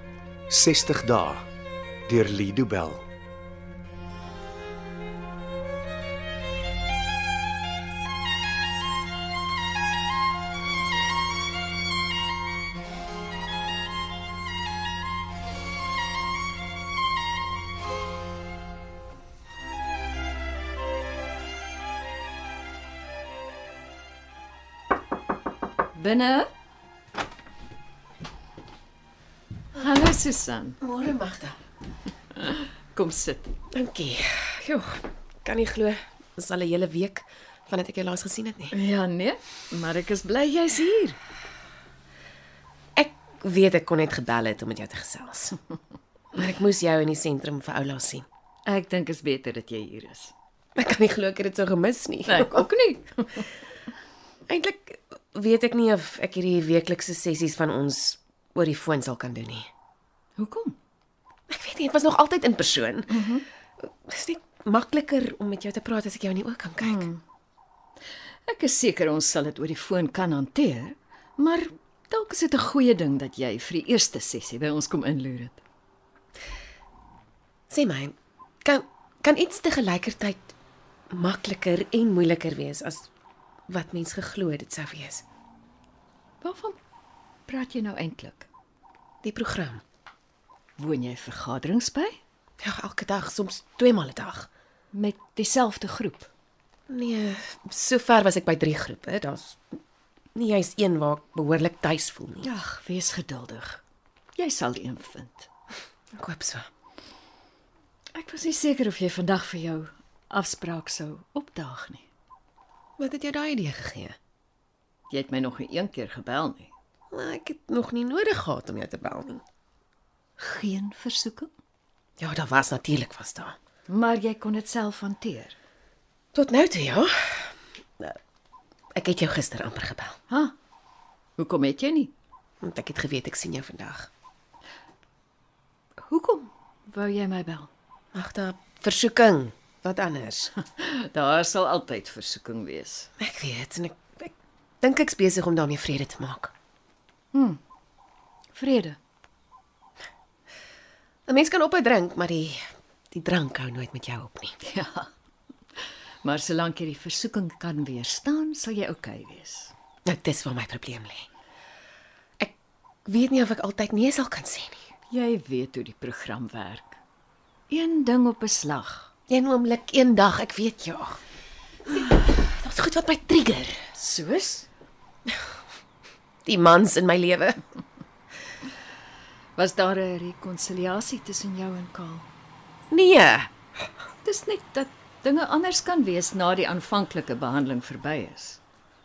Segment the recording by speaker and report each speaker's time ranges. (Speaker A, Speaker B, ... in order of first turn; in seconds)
Speaker A: 0.5-1.4, 2.1-3.1
Speaker B: 25.9-26.5, 29.8-30.8, 32.3-33.5, 38.7-41.2, 48.6-50.3, 52.3-53.5, 60.4-60.8, 63.1-63.4, 66.8-67.2, 68.5-75.6, 86.4-86.8, 87.5-88.5, 90.8-92.2, 94.9-96.3, 102.4-103.8, 104.4-105.5, 108.1-112.0, 115.1-116.7, 120.4-121.5, 123.9-125.5, 130.3-130.5, 131.4-132.1, 136.0-137.7, 140.6-143.1, 147.3-147.6, 148.5-149.0, 154.6-155.1, 156.2-159.7, 165.1-167.0, 167.7-169.1, 173.9-174.7, 179.6-182.3, 184.2-188.6
Speaker C: 30.8-31.6, 33.7-38.7, 43.0-45.5, 46.3-48.2, 50.8-52.7, 54.5-59.7, 61.5-63.3, 63.8-67.0, 77.7-80.5, 81.1-83.1, 83.7-85.2, 89.2-89.8, 92.6-94.5, 96.9-99.6, 100.3-102.5, 106.1-106.7, 113.0-114.2, 117.1-119.4, 122.2-123.5, 126.3-128.2, 128.9-130.2, 132.6-134.1, 138.1-140.5, 143.2-146.5, 151.3-152.6, 153.1-154.6, 160.1-161.3, 163.1-164.9, 169.3-171.2, 171.9-173.8, 176.4-177.6, 182.9-183.5